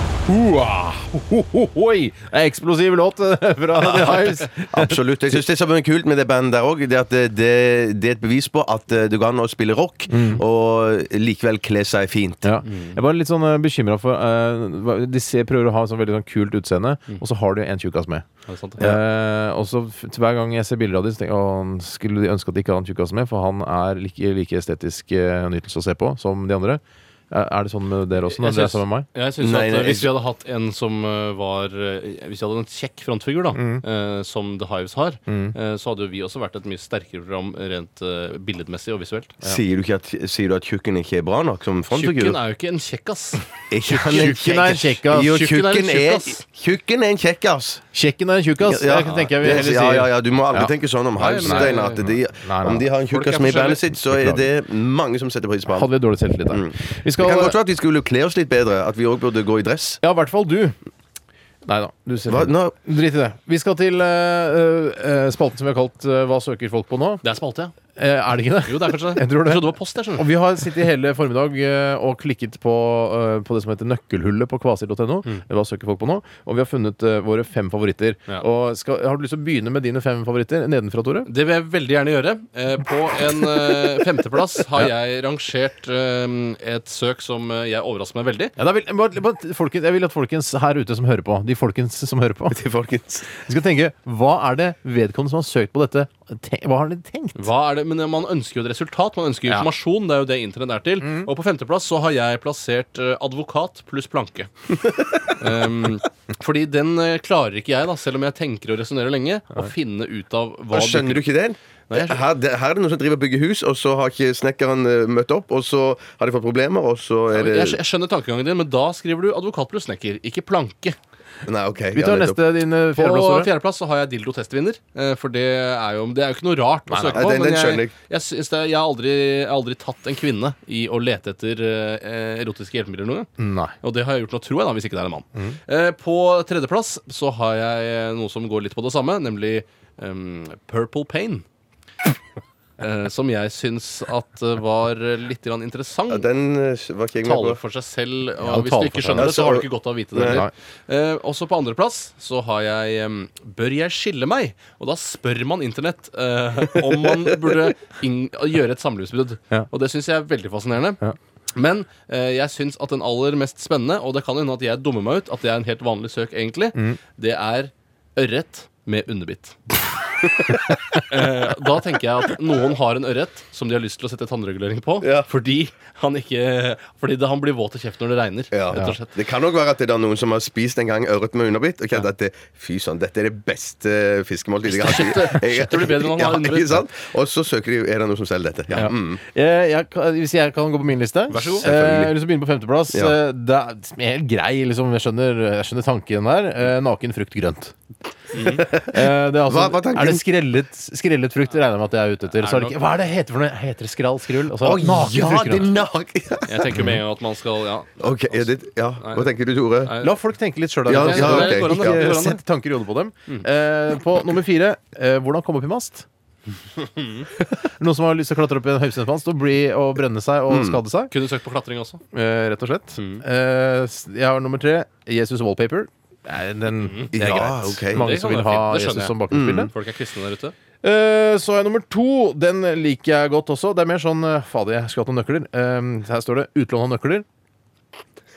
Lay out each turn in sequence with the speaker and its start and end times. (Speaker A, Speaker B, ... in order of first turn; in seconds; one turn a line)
Speaker A: 0.3-5.4
Speaker B: 3.8-12.5
Speaker A: 10.1-10.4
Speaker A: 12.4-18.3
Speaker C: 12.7-13.0
Speaker C: 18.5-19.0
Speaker A: 18.8-29.1
Speaker C: 28.3-39.4
Speaker B: 29.4-30.1
Speaker A: 33.5-33.8
Speaker A: 35.3-35.5
Speaker B: 39.4-42.4
Speaker C: 41.9-43.4
Speaker B: 43.7-47.8
Speaker A: 43.9-45.5
Speaker C: 45.2-46.4
Speaker A: 47.9-52.9
Speaker B: 48.6-55.9
Speaker C: 51.2-52.1
Speaker C: 53.1-53.8
Speaker A: 54.0-54.5
Speaker A: 55.7-57.6
Speaker B: 56.5-60.0
Speaker A: 60.0-60.8
Speaker A: 61.6-67.2
Speaker B: 62.3-62.7
Speaker C: 67.2-67.7
Speaker A: 68.0-81.3
Speaker C: 68.6-70.3
Speaker C: 81.3-88.5
Speaker A: 88.6-92.6
Speaker B: 92.5-93.3
Speaker A: 93.4-97.5
Speaker C: 97.4-104.7
Speaker A: 101.0-101.3
Speaker C: 105.4-111.3
Speaker B: 110.7-117.8
Speaker C: 111.9-112.2
Speaker C: 117.3-121.0
Speaker B: 121.5-122.4
Speaker A: 121.9-123.5
Speaker C: 123.0-133.3
Speaker A: 126.9-127.3
Speaker B: 127.1-127.9
Speaker A: 133.4-133.8
Speaker C: 133.8-141.4
Speaker C: 142.8-146.3
Speaker B: 146.1-147.6
Speaker C: 147.2-161.0
Speaker A: 148.4-149.3
Speaker B: 149.1-150.4
Speaker A: 150.2-150.5
Speaker C: 161.6-169.6
Speaker C: 171.0-179.1
Speaker B: 175.0-175.3
Speaker B: 178.5-189.2
Speaker C: 184.7-186.9
Speaker A: 188.7-197.8
Speaker C: 191.3-191.7
Speaker B: 191.6-192.2
Speaker B: 192.9-193.2
Speaker C: 198.3-198.7
Speaker B: 198.4-200.2
Speaker A: 198.8-205.8
Speaker C: 202.3-202.8
Speaker B: 204.5-207.0
Speaker C: 206.5-209.3
Speaker B: 208.0-209.9
Speaker C: 209.8-210.2
Speaker A: 210.0-216.1
Speaker B: 210.8-212.2
Speaker C: 210.9-212.4
Speaker C: 217.0-217.3
Speaker A: 217.6-221.1
Speaker B: 220.5-220.8
Speaker C: 221.1-222.0
Speaker A: 222.1-229.7
Speaker C: 223.0-223.2
Speaker C: 226.8-227.1
Speaker B: 227.1-228.1
Speaker C: 227.8-230.6
Speaker B: 229.3-229.7
Speaker A: 230.8-237.2